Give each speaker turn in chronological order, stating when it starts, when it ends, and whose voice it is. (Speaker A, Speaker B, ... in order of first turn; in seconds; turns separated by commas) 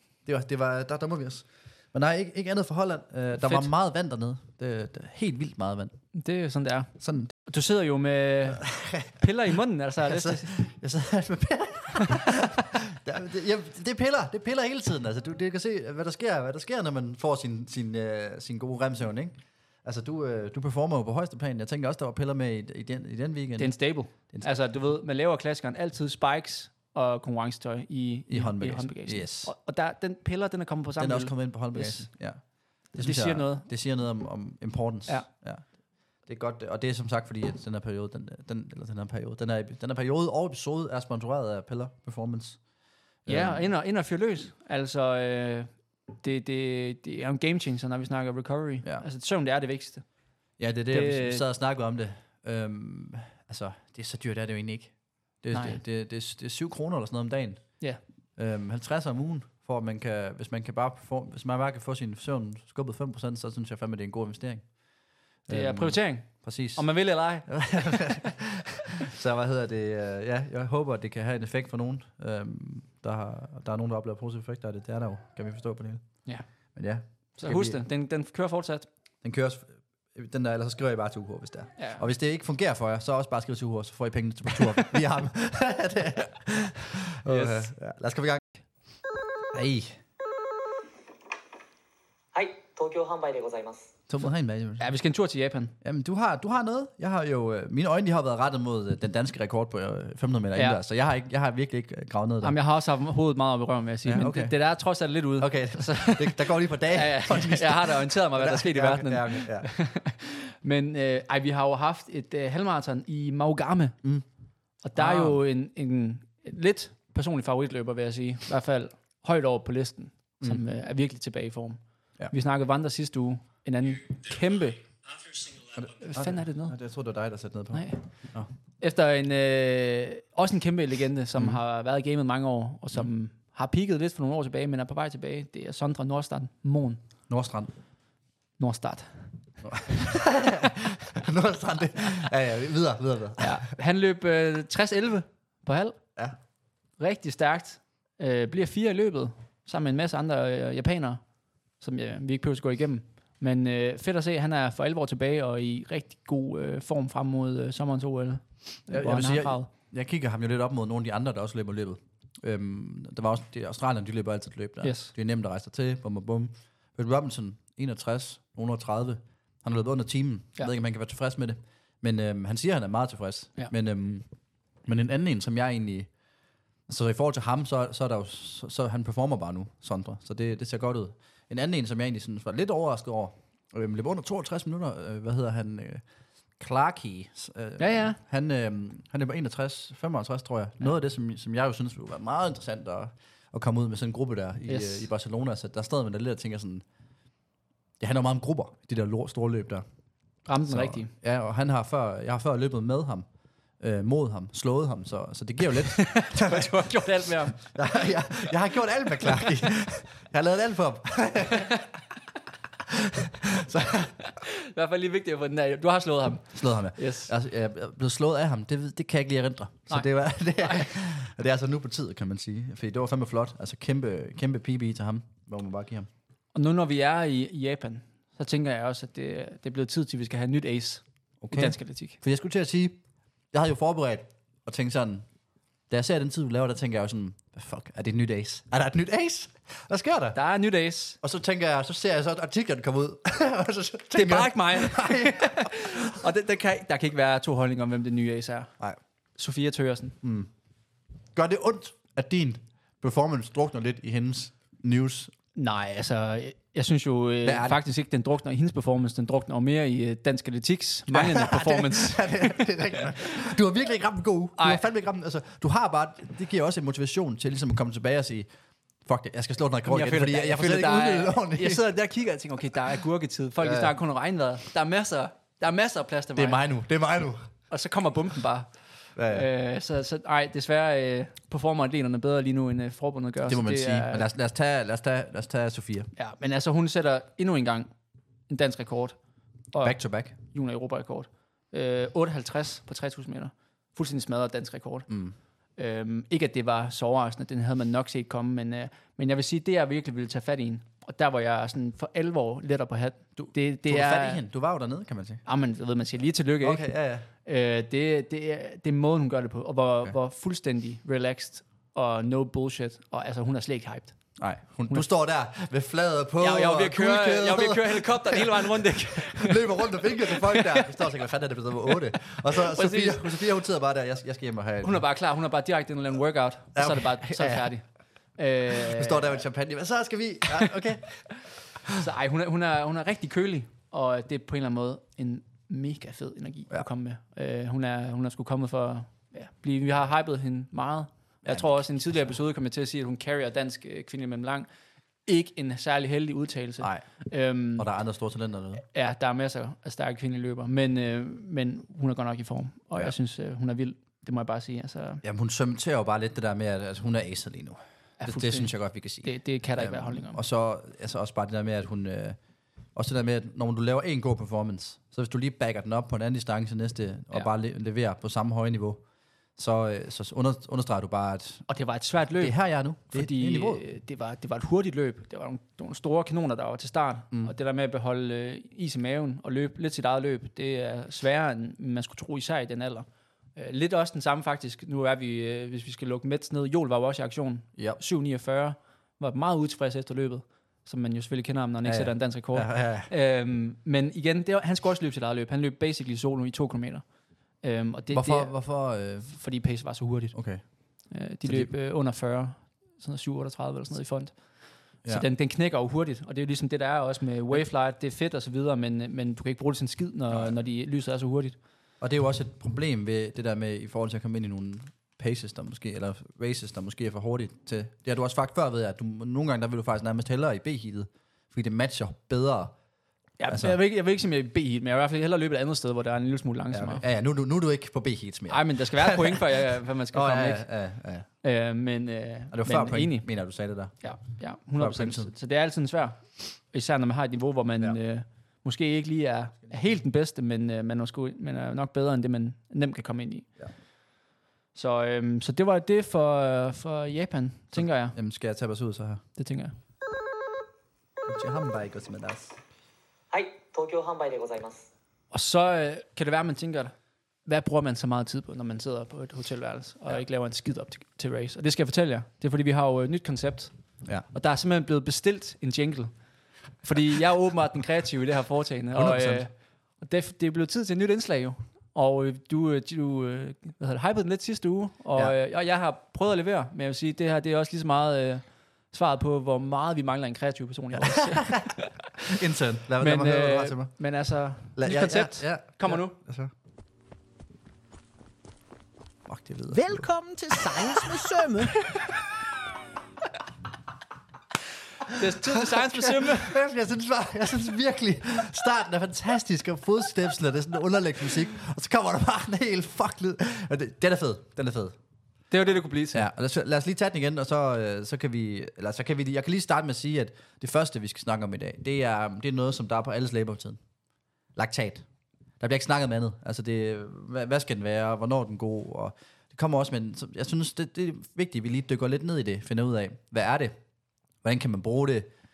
Speaker A: 0.3-6.0, Speaker B: 3.4-3.7, Speaker B: 6.1-6.9, Speaker A: 7.0-7.3, Speaker B: 7.5-10.5, Speaker A: 8.6-9.2, Speaker A: 10.0-24.5, Speaker B: 23.6-32.1, Speaker A: 28.3-29.5, Speaker A: 31.0-35.7, Speaker B: 32.9-33.7, Speaker A: 36.2-42.6, Speaker A: 43.2-43.7, Speaker B: 43.3-50.0, Speaker A: 50.6-57.7, Speaker B: 50.9-51.4, Speaker B: 55.5-55.8, Speaker A: 58.4-64.7, Speaker A: 65.5-76.2, Speaker B: 65.5-68.2, Speaker A: 76.8-77.8, Speaker B: 77.4-78.9, Speaker A: 79.2-88.4, Speaker B: 81.8-82.0, Speaker B: 87.3-87.7, Speaker A: 89.5-90.0, Speaker C: 92.3-93.9, Speaker A: 94.1-94.9, Speaker B: 94.8-95.7, Speaker A: 95.8-102.6, Speaker B: 100.5-100.8, Speaker B: 102.4-114.0, Speaker A: 104.0-104.6, Speaker A: 105.4-109.7, Speaker B: 114.8-124.8, Speaker A: 115.0-115.4, Speaker A: 125.8-128.5, Speaker B: 126.0-126.8, Speaker B: 127.7-128.1, Speaker B: 128.8-137.0, Speaker A: 137.3-137.7, Speaker B: 138.6-139.2, Speaker A: 139.6-143.6, Speaker B: 143.4-146.0, Speaker B: 147.0-151.2, Speaker B: 151.8-159.7, Speaker A: 158.9-174.3, Speaker B: 164.8-165.1, Speaker A: 174.8-176.1, Speaker A: 176.9-186.0, Speaker A: 186.6-196.8, Speaker B: 187.8-188.2, Speaker B: 194.7-195.1, Speaker A: 198.0-199.8, Speaker B: 200.5-201.1, Speaker A: 200.7-203.3, Speaker A: 203.8-211.7, Speaker B: 205.9-207.6, Speaker A: 212.9-214.2, Speaker B: 214.2-217.3, Speaker A: 216.5-226.1, Speaker B: 220.6-220.9, Speaker B: 226.6-232.2, Speaker A: 231.4-233.0, Speaker A: 233.5-235.3, Speaker A: 235.9-240.4, Speaker B: 240.3-241.2, Speaker A: 241.2-246.1, Speaker B: 244.1-248.7, Speaker B: 249.4-250.2, Speaker A: 250.2-250.5, Speaker A: 251.3-255.3, Speaker B: 255.6-262.7, Speaker A: 257.4-257.8, Speaker A: 261.1-268.5, Speaker B: 264.6-264.8, Speaker A: 269.1-271.9, Speaker B: 269.9-276.6, Speaker A: 273.6-273.9, Speaker A: 276.4-277.4, Speaker B: 277.7-278.7, Speaker A: 279.2-279.5, Speaker B: 279.3-284.3, Speaker A: 283.5-286.1, Speaker B: 286.2-287.9, Speaker B: 288.5-289.2, Speaker B: 289.7-295.1, Speaker A: 289.8-290.4, Speaker A: 295.1-295.4, Speaker B: 295.8-304.4, Speaker A: 303.4-305.4, Speaker B: 305.5-314.2, Speaker A: 306.6-307.3, Speaker A: 314.4-325.0, Speaker B: 316.4-320.9, Speaker B: 322.3-323.3, Speaker B: 324.8-327.9, Speaker A: 326.8-327.7, Speaker B: 328.4-329.4, Speaker A: 328.7-331.3, Speaker B: 332.0-344.7, Speaker A: 341.4-342.3, Speaker B: 345.3-347.9, Speaker A: 347.8-348.8, Speaker B: 348.9-355.2, Speaker A: 355.2-362.4, Speaker B: 358.2-358.7, Speaker B: 359.2-360.4, Speaker A: 362.9-369.0, Speaker A: 369.6-371.7, Speaker B: 371.7-397.0, Speaker A: 372.4-373.8, Speaker A: 391.8-393.1, Speaker B: 397.6-398.7, Speaker A: 398.1-399.4, Speaker B: 399.2-400.4, Speaker A: 400.3-400.6, Speaker B: 401.1-411.6, Speaker A: 401.4-401.7, Speaker A: 412.0-422.7, Speaker B: 423.4-427.0, Speaker A: 423.5-423.8, Speaker A: 426.7-429.4, Speaker B: 428.5-430.6, Speaker A: 430.1-431.3, Speaker B: 431.4-433.3, Speaker A: 432.5-434.1, Speaker B: 434.0-443.5, Speaker A: 434.8-435.3, Speaker B: 444.8-448.2, Speaker A: 447.7-449.2, Speaker B: 449.4-449.8, Speaker A: 451.3-452.6, Speaker C: 453.3-454.9, Speaker B: 455.3-456.9, Speaker B: 457.5-463.7, Speaker B: 464.3-466.1, Speaker B: 466.8-481.9, Speaker A: 468.9-469.5, Speaker A: 481.0-481.7, Speaker A: 482.3-483.9, Speaker B: 483.0-486.2, Speaker A: 484.8-486.5, Speaker A: 489.3-491.1, Speaker D: 489.7-491.8, Speaker B: 495.1-496.6, Speaker A: 495.3-505.0, Speaker B: 505.5-506.3, Speaker A: 506.1-513.8, Speaker A: 514.5-515.1, Speaker A: 515.6-523.8, Speaker A: 524.4-525.3